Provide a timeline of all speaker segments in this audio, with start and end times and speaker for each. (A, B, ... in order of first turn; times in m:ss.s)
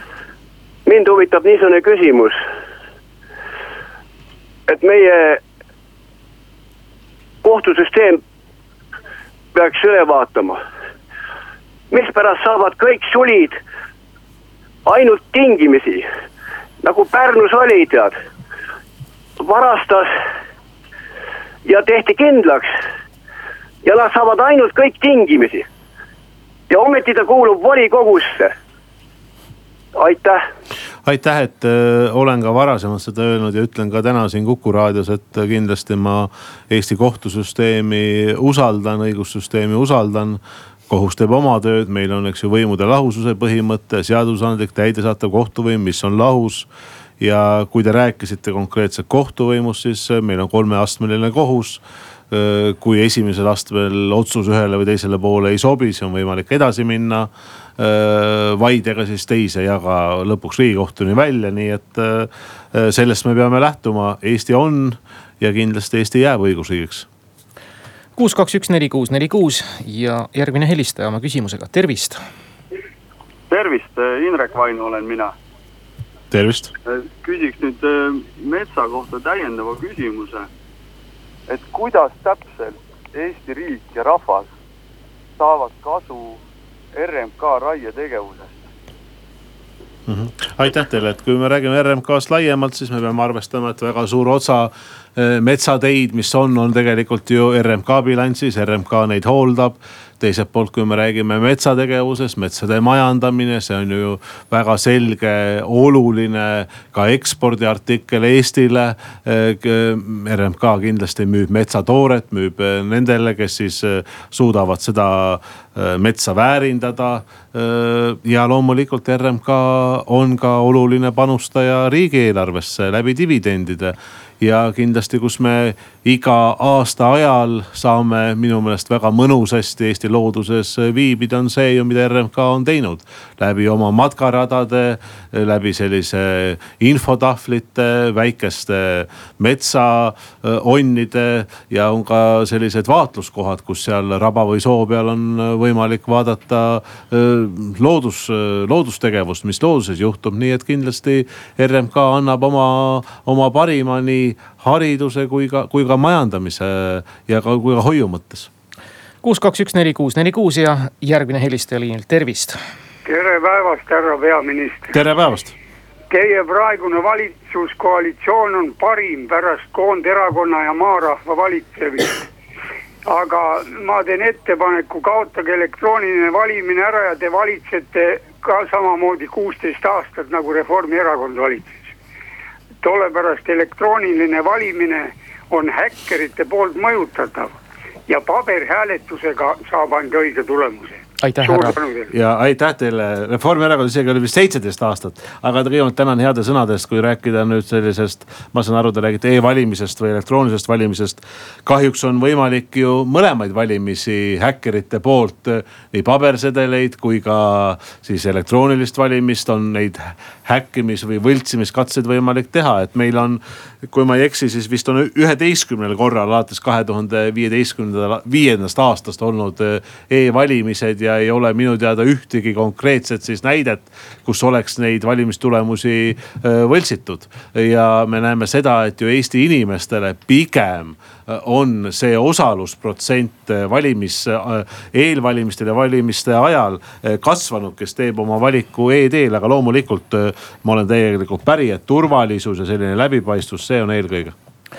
0:00.9-0:02.4 A
0:04.7-0:05.4 A
0:07.4-0:08.2 A
0:09.5-0:10.6 A
0:11.9-0:13.6 A
0:14.8-0:16.1 A
0:16.8-0:18.2 A
0:19.4-0:20.1 A
0:21.6-0:22.7 A
0:23.8-0:25.7 A
0:26.7-0:28.5 A
0:30.0-0:30.4 A
0:31.0-0:46.7 B
0:47.2-1:07.1 B
1:08.2-1:12.2 C
1:13.5-1:15.3 D
1:16.3-1:16.7 B
1:16.8-1:20.5 D
1:21.5-1:24.5 D
1:25.4-1:26.4 D
1:27.0-1:28.7 D
1:30.1-2:38.5 B
2:39.2-2:42.6 C
2:43.1-2:44.9 E
2:44.9-2:45.6 B
2:46.1-2:52.2 E
2:53.1-3:01.7 E
3:02.8-3:12.1 E
3:11.2-3:11.8 C
3:12.1-4:04.3 B